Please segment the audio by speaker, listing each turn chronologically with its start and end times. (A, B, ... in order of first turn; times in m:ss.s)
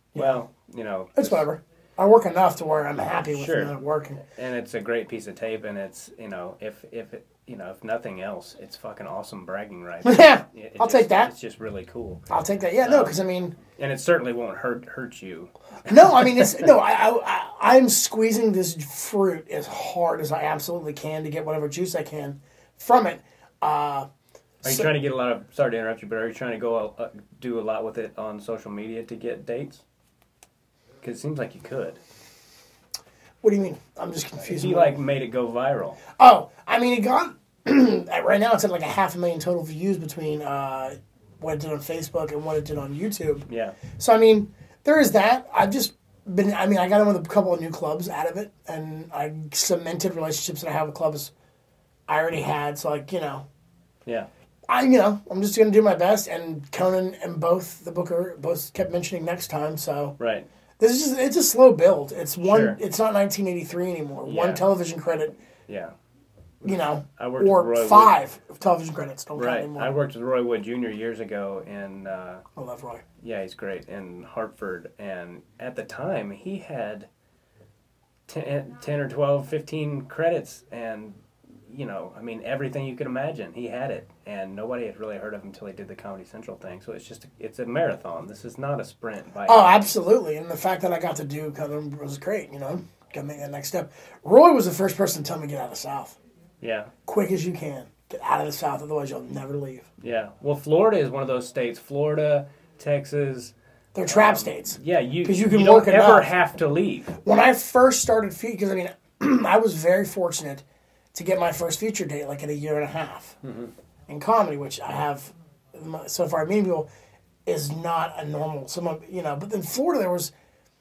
0:00.1-0:00.4 A
0:00.1-0:01.4 B
0:01.2-0:04.2 A
0:03.3-0:03.7 B
0:04.3-0:12.2 B
0:10.0-0:11.3 A
0:12.3-0:13.6 A
0:12.8-0:13.2 B
0:13.8-0:16.7 B
0:15.9-0:24.1 A
0:24.6-0:29.8 B
0:31.0-0:32.0 B
0:33.4-0:35.0 A
0:34.4-0:36.0 B
0:36.2-0:51.3 A
0:43.5-0:43.8 B
0:52.1-0:53.4 A
0:54.7-1:00.2 A
1:00.2-1:00.5 B
1:00.8-1:05.4 A
1:02.4-1:02.8 B
1:04.2-1:04.6 B
1:05.7-1:05.9 B
1:06.6-1:08.2 B
1:06.6-1:09.9 A
1:09.4-1:12.4 B
1:12.6-1:13.0 A
1:13.2-1:17.1 B
1:18.3-1:29.9 B
1:29.5-1:36.2 A
1:36.6-1:36.9 B
1:37.0-1:39.8 A
1:40.0-1:43.5 B
1:43.9-1:46.3 A
1:44.1-1:47.1 B
1:47.2-1:50.6 A
1:51.1-1:53.4 A
1:53.4-1:53.7 B
1:54.1-1:56.9 A
1:57.4-2:00.3 A